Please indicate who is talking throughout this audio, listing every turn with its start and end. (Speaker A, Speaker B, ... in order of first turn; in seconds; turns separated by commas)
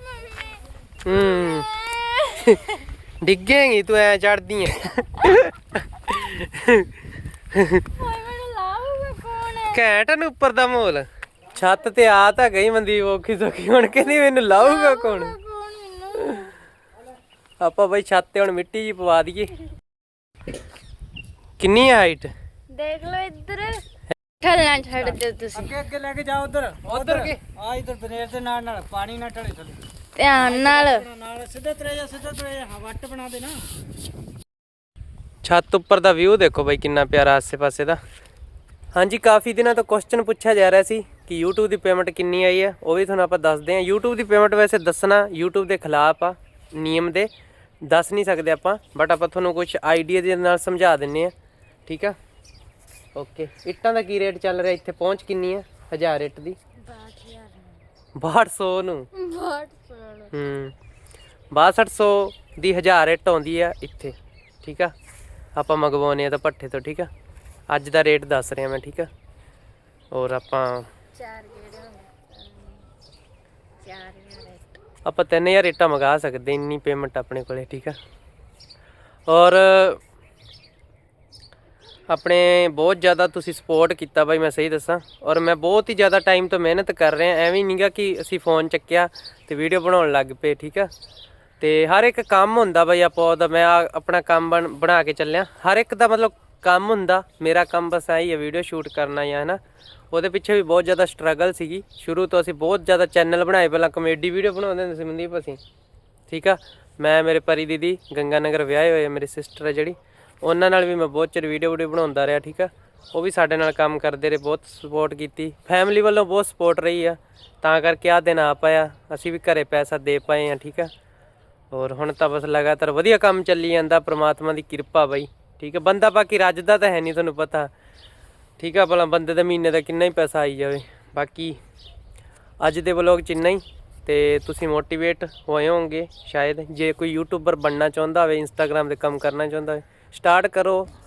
Speaker A: 0.2-2.6, Speaker B: 1.0-1.7, Speaker B: 2.4-6.9, Speaker B: 7.5-7.9, Speaker A: 7.9-9.8, Speaker B: 9.7-15.4, Speaker A: 14.5-16.5, Speaker B: 16.2-16.5, Speaker B: 17.6-19.5, Speaker B: 21.6-22.3, Speaker A: 22.7-23.8, Speaker A: 24.4-25.7, Speaker C: 25.5-29.8, Speaker B: 26.9-27.4, Speaker A: 30.2-31.1, Speaker C: 30.4-33.6, Speaker B: 35.4-38.0, Speaker B: 38.9-47.3, Speaker B: 47.8-51.3, Speaker B: 51.9-52.2, Speaker B: 53.1-56.6, Speaker A: 56.8-57.8, Speaker B: 58.2-59.1, Speaker A: 59.1-60.3, Speaker B: 60.3-60.8, Speaker B: 61.5-64.9, Speaker B: 65.5-67.1, Speaker B: 67.7-69.1, Speaker B: 70.1-70.9, Speaker A: 71.2-72.8, Speaker A: 73.8-74.8, Speaker B: 75.0-78.0, Speaker B: 79.3-80.0, Speaker B: 82.1-90.9, Speaker B: 91.6-99.6, Speaker B: 100.1-105.6, Speaker B: 106.3-120.9, Speaker B: 121.7-127.7, Speaker B: 128.6-131.6, Speaker B: 132.6-140.9